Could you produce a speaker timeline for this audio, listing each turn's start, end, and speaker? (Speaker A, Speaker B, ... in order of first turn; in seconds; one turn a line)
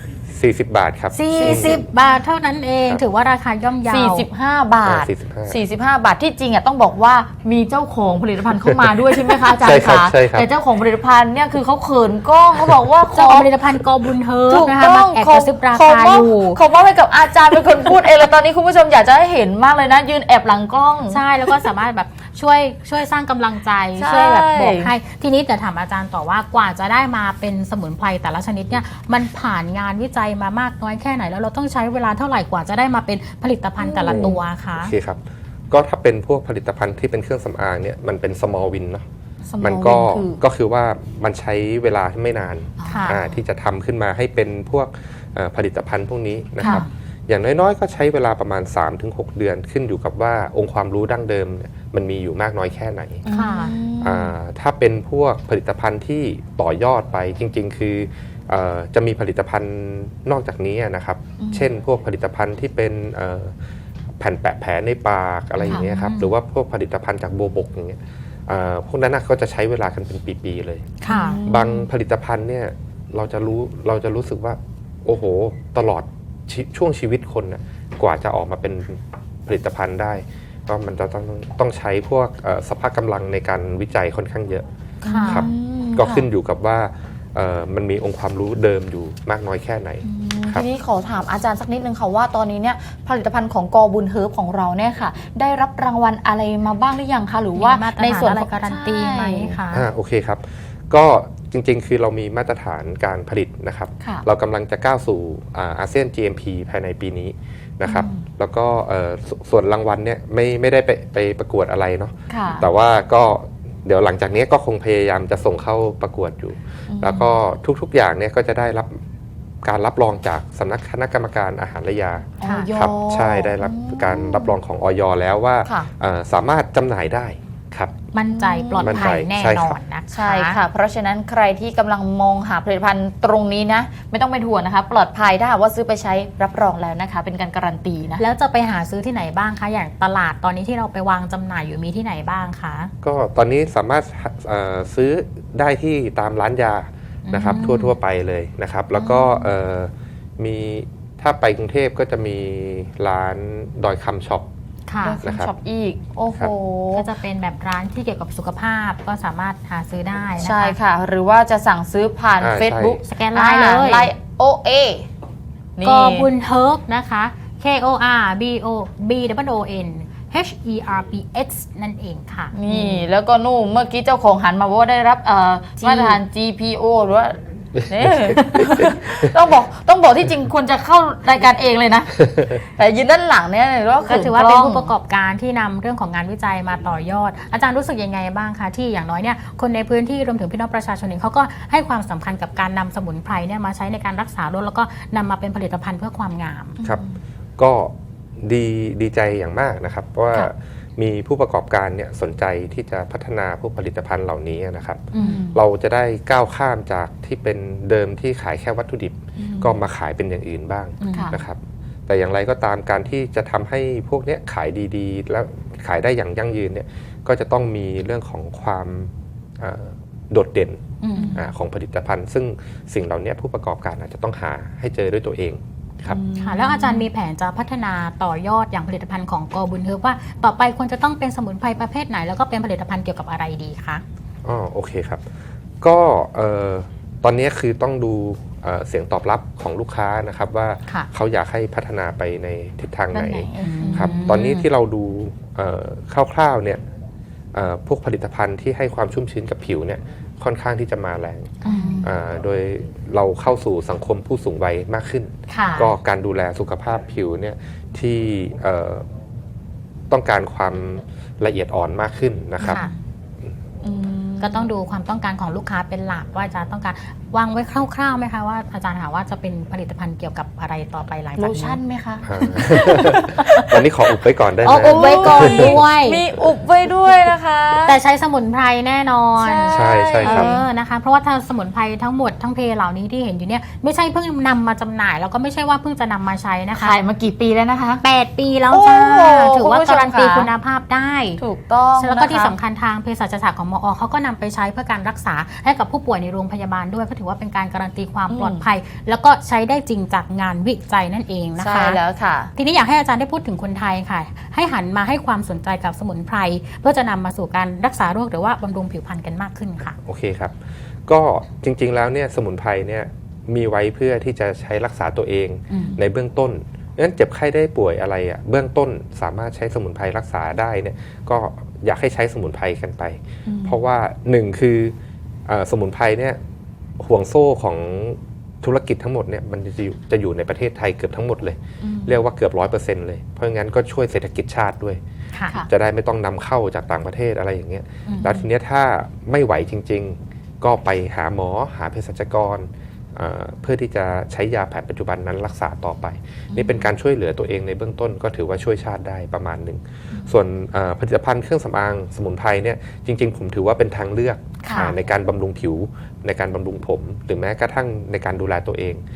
Speaker A: 0.3-1.9
Speaker B: 1.1-4.3
Speaker C: 1.4-1.8
Speaker C: 3.9-13.5
Speaker A: 4.8-5.6
Speaker A: 9.3-10.5
Speaker B: 13.1-16.6
Speaker C: 14.5-21.6
Speaker B: 21.1-34.9
Speaker C: 24.0-24.9
Speaker C: 33.8-34.4
Speaker A: 34.1-39.1
Speaker C: 39.5-40.4
Speaker A: 39.6-53.3
Speaker C: 42.8-43.3
Speaker B: 42.9-43.2
Speaker B: 46.6-46.9
Speaker C: 53.3-54.3
Speaker B: 53.3-53.8
Speaker A: 54.0-63.6
Speaker C: 61.4-61.7
Speaker A: 64.2-84.7
Speaker B: 65.6-66.3
Speaker C: 71.0-71.9
Speaker B: 71.1-71.4
Speaker C: 85.0-86.3
Speaker B: 85.0-85.5
Speaker A: 85.2-90.6
Speaker C: 90.0-99.6
Speaker B: 97.5-99.9
Speaker A: 99.7-119.0
Speaker C: 107.8-108.3
Speaker C: 112.3-112.7
Speaker C: 116.9-117.3
Speaker A: 119.6-127.9
Speaker C: 122.4-124.6
Speaker B: 122.4-122.7
Speaker B: 128.1-130.6
Speaker C: 128.3-129.1
Speaker A: 128.8-129.8
Speaker C: 130.1-138.2
Speaker B: 138.2-142.9
Speaker A: 143.0-154.5
Speaker B: 147.3-147.9
Speaker C: 148.9-149.5
Speaker B: 154.9-155.2
Speaker C: 155.0-157.1
Speaker A: 155.2-155.5
Speaker B: 156.9-160.8
Speaker C: 160.4-165.1
Speaker A: 162.4-163.0
Speaker B: 163.1-164.1
Speaker C: 165.8-166.3
Speaker B: 165.8-173.1
Speaker C: 172.5-184.9
Speaker B: 175.8-176.2
Speaker A: 178.3-178.9
Speaker B: 184.1-196.8
Speaker C: 196.8-197.2
Speaker A: 197.6-226.2
Speaker B: 205.1-205.4
Speaker C: 205.2-205.6
Speaker C: 209.4-209.7
Speaker B: 211.0-211.4
Speaker C: 211.1-211.4
Speaker B: 221.0-221.4
Speaker C: 221.1-221.4
Speaker C: 226.1-227.1
Speaker B: 226.4-234.0
Speaker A: 234.4-235.2
Speaker A: 235.8-246.8
Speaker C: 243.1-244.3
Speaker B: 243.6-244.7
Speaker A: 247.5-259.1
Speaker B: 251.6-252.1
Speaker C: 251.7-252.1
Speaker B: 255.5-255.9
Speaker A: 260.1-262.8
Speaker C: 262.6-262.9
Speaker B: 262.7-262.9
Speaker C: 263.8-264.7
Speaker B: 264.4-271.8
Speaker C: 271.4-273.8
Speaker A: 272.2-275.8
Speaker B: 272.4-273.7
Speaker B: 274.6-276.2
Speaker C: 274.8-278.0
Speaker B: 277.9-286.9
Speaker C: 279.4-280.6
Speaker A: 279.7-280.5
Speaker C: 286.8-288.0
Speaker B: 288.0-291.4
Speaker C: 288.7-290.5
Speaker C: 291.4-292.6
Speaker B: 292.0-302.0
Speaker C: 298.3-298.6
Speaker C: 301.6-302.5
Speaker B: 302.6-310.0
Speaker A: 310.0-310.6
Speaker A: 311.1-324.9
Speaker B: 315.7-316.0
Speaker C: 323.5-323.8
Speaker A: 325.5-326.4
Speaker A: 327.0-335.0
Speaker C: 331.8-332.2
Speaker A: 335.7-359.0
Speaker B: 338.1-338.4
Speaker C: 346.5-346.9
Speaker C: 354.6-354.9
Speaker B: 354.7-354.9